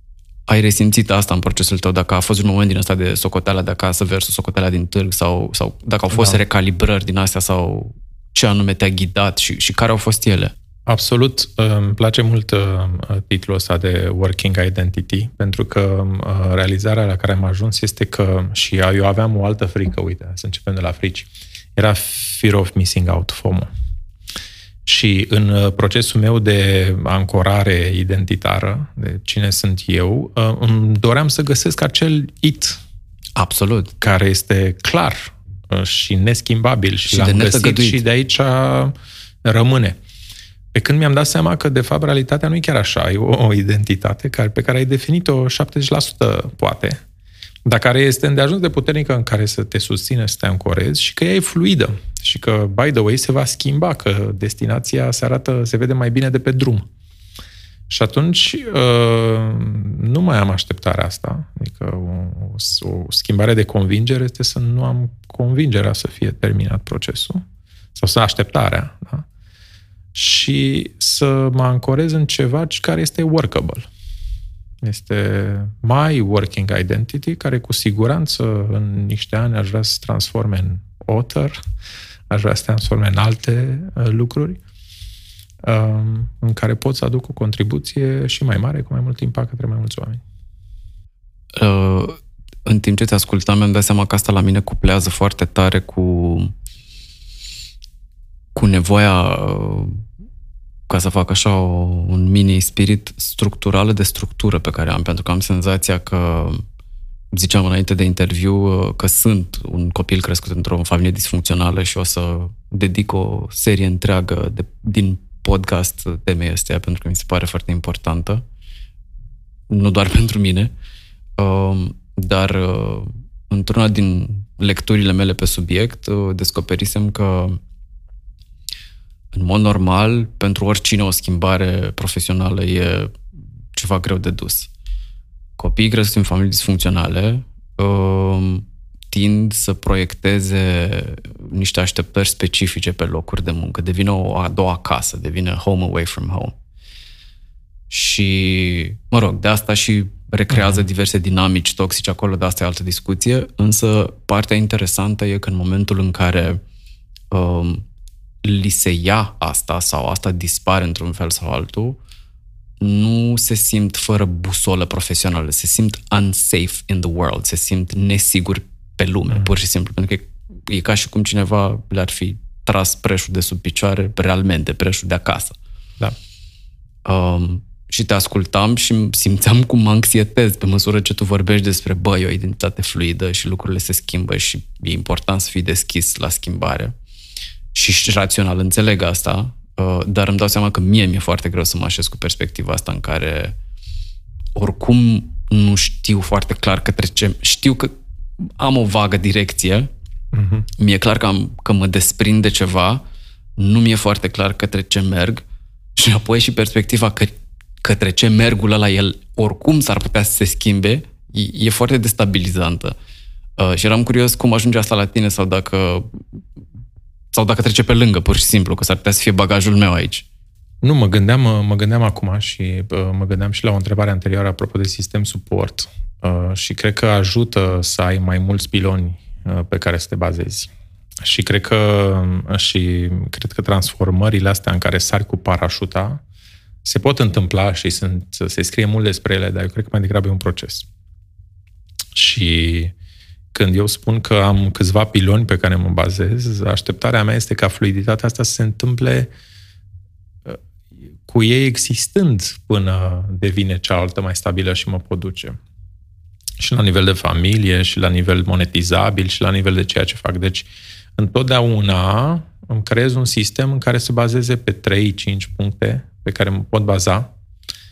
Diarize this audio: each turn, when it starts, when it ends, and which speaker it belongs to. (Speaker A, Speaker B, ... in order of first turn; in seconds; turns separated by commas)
Speaker A: 0.5-10.5, Speaker B: 10.9-23.7, Speaker B: 24.9-32.8, Speaker A: 33.4-33.9, Speaker B: 34.0-40.0, Speaker A: 37.1-38.0, Speaker B: 40.7-47.0, Speaker B: 47.6-56.9, Speaker B: 57.9-67.4, Speaker B: 67.9-69.2, Speaker B: 70.1-73.9, Speaker B: 74.8-81.6, Speaker B: 82.3-84.6, Speaker B: 85.6-90.2, Speaker A: 91.5-96.5, Speaker A: 98.5-100.0, Speaker A: 100.9-106.6, Speaker A: 107.3-118.4, Speaker A: 119.7-120.7, Speaker A: 121.4-127.6, Speaker A: 129.3-133.2, Speaker A: 133.7-134.7, Speaker A: 135.6-146.5, Speaker A: 147.9-156.6, Speaker B: 150.5-150.8, Speaker A: 157.3-157.8, Speaker A: 158.4-162.0, Speaker A: 162.8-175.5, Speaker A: 177.0-186.9, Speaker A: 187.7-193.6, Speaker A: 194.6-199.9, Speaker B: 200.3-200.7, Speaker A: 200.8-203.0, Speaker A: 203.6-205.4, Speaker A: 205.9-212.9, Speaker A: 213.6-216.4, Speaker A: 217.3-220.2, Speaker B: 220.8-230.7, Speaker B: 231.2-236.2, Speaker B: 236.8-240.9, Speaker B: 242.1-242.9, Speaker B: 243.5-249.3, Speaker B: 251.2-255.6, Speaker B: 256.6-267.3